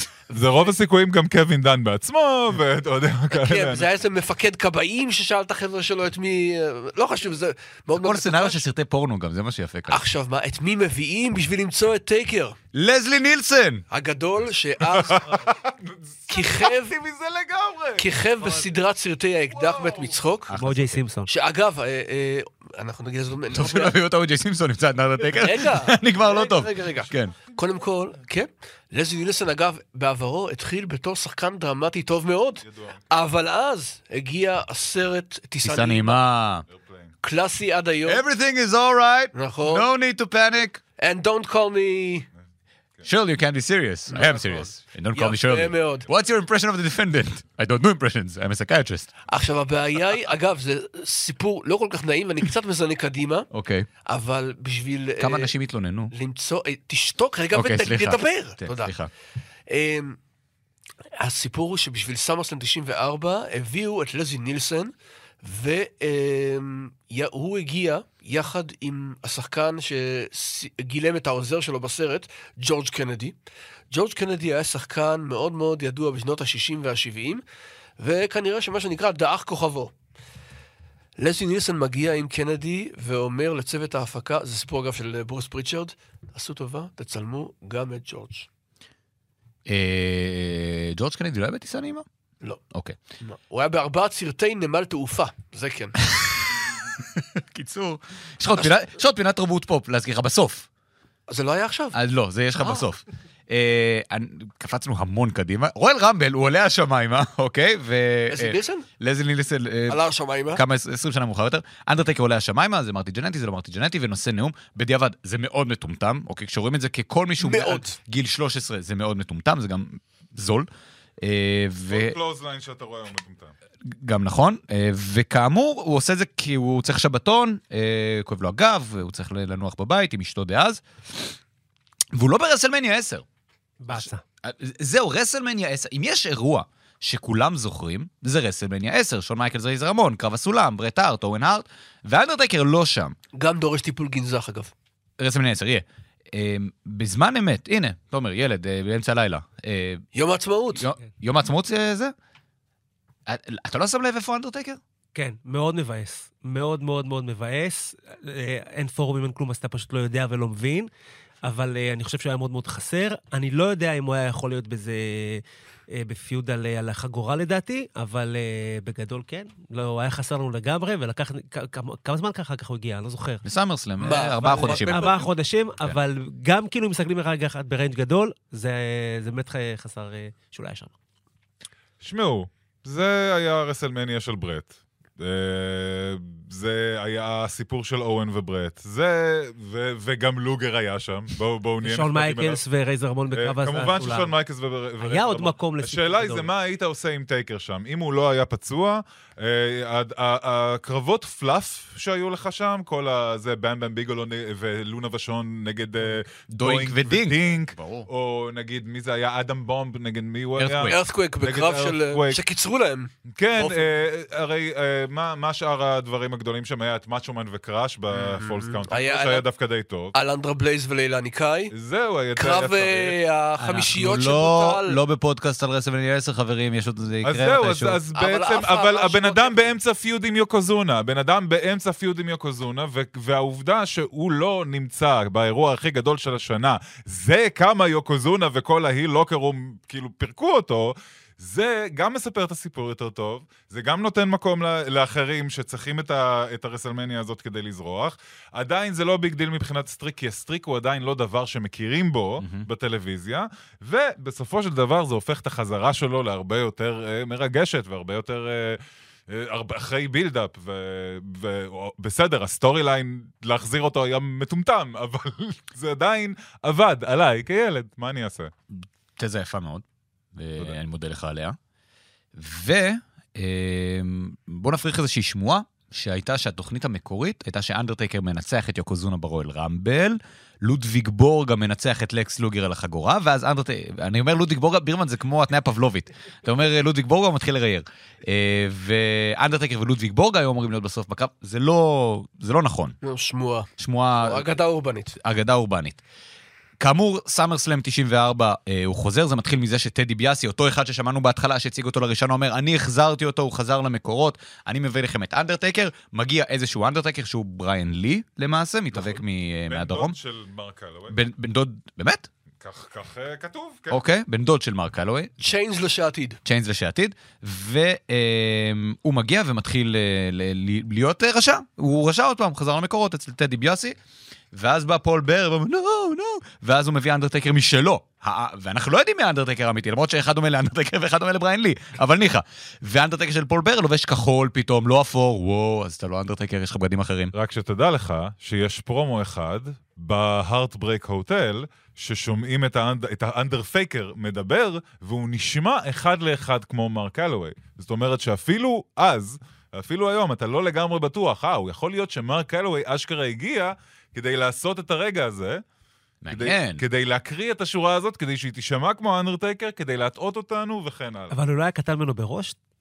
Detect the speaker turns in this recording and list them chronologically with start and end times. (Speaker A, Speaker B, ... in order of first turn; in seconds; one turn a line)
Speaker A: 0.3-3.9
Speaker B: 3.3-8.6
Speaker C: 7.9-10.0
Speaker B: 9.9-12.6
Speaker C: 12.7-13.8
Speaker B: 13.9-15.5
Speaker A: 14.9-18.8
Speaker B: 16.3-16.9
Speaker B: 18.0-20.5
Speaker A: 19.5-20.2
Speaker C: 20.5-21.0
Speaker D: 20.6-21.3
Speaker B: 21.3-24.0
Speaker C: 23.5-27.4
Speaker B: 25.2-36.2
Speaker A: 32.6-33.0
Speaker C: 35.6-36.6
Speaker A: 36.7-37.1
Speaker B: 37.2-38.2
Speaker C: 38.0-40.8
Speaker B: 39.3-39.9
Speaker B: 41.0-42.3
Speaker C: 43.0-49.1
Speaker B: 44.1-46.1
Speaker B: 49.3-53.5
Speaker C: 53.5-53.9
Speaker B: 54.0-55.5
Speaker C: 55.2-56.1
Speaker B: 56.1-58.9
Speaker C: 57.5-59.1
Speaker B: 59.7-60.2
Speaker B: 61.2-73.3
Speaker B: 73.9-77.4
Speaker B: 78.0-79.9
Speaker B: 81.2-88.5
Speaker C: 89.7-92.0
Speaker B: 93.2-96.0
Speaker C: 96.0-100.7
Speaker B: 101.3-102.0
Speaker C: 101.9-120.7
Speaker B: 108.3-108.8
Speaker B: 109.9-110.6
Speaker B: 117.4-118.0
Speaker C: 121.2-122.2
Speaker A: 121.9-123.5
Speaker C: 123.8-131.3
Speaker C: 132.1-133.2
Speaker D: 133.8-134.2
Speaker C: 133.9-143.2
Speaker B: 143.3-144.7
Speaker C: 145.2-150.0
Speaker B: 150.1-150.8
Speaker C: 150.7-152.1
Speaker C: 153.3-154.8
Speaker D: 155.1-160.9
Speaker D: 161.4-173.4
Speaker C: 173.4-175.2
Speaker B: 174.0-175.3
Speaker D: 174.4-180.9
Speaker A: 182.0-192.6
Speaker D: 191.8-194.3
Speaker A: 193.3-212.4
Speaker D: 195.0-196.5
Speaker C: 206.5-208.1
Speaker C: 210.6-211.0
Speaker B: 210.9-213.9
Speaker A: 213.3-220.1
Speaker B: 218.1-219.4
Speaker B: 220.1-221.7
Speaker A: 221.7-223.2
Speaker B: 222.3-225.0
Speaker C: 223.6-228.0
Speaker A: 227.2-268.5
Speaker B: 228.1-229.7
Speaker C: 252.4-252.7
Speaker C: 268.8-269.8
Speaker C: 270.3-271.6
Speaker C: 272.4-293.0
Speaker B: 293.0-295.1
Speaker C: 293.8-294.5
Speaker C: 295.2-296.0
Speaker C: 296.8-310.1
Speaker A: 309.7-311.2
Speaker C: 311.1-312.3
Speaker A: 312.6-314.0
Speaker C: 313.9-315.4
Speaker B: 315.4-316.4
Speaker C: 316.4-323.9
Speaker C: 324.5-337.3
Speaker A: 337.3-355.6
Speaker C: 356.2-356.8
Speaker A: 356.3-361.3
Speaker D: 361.3-362.6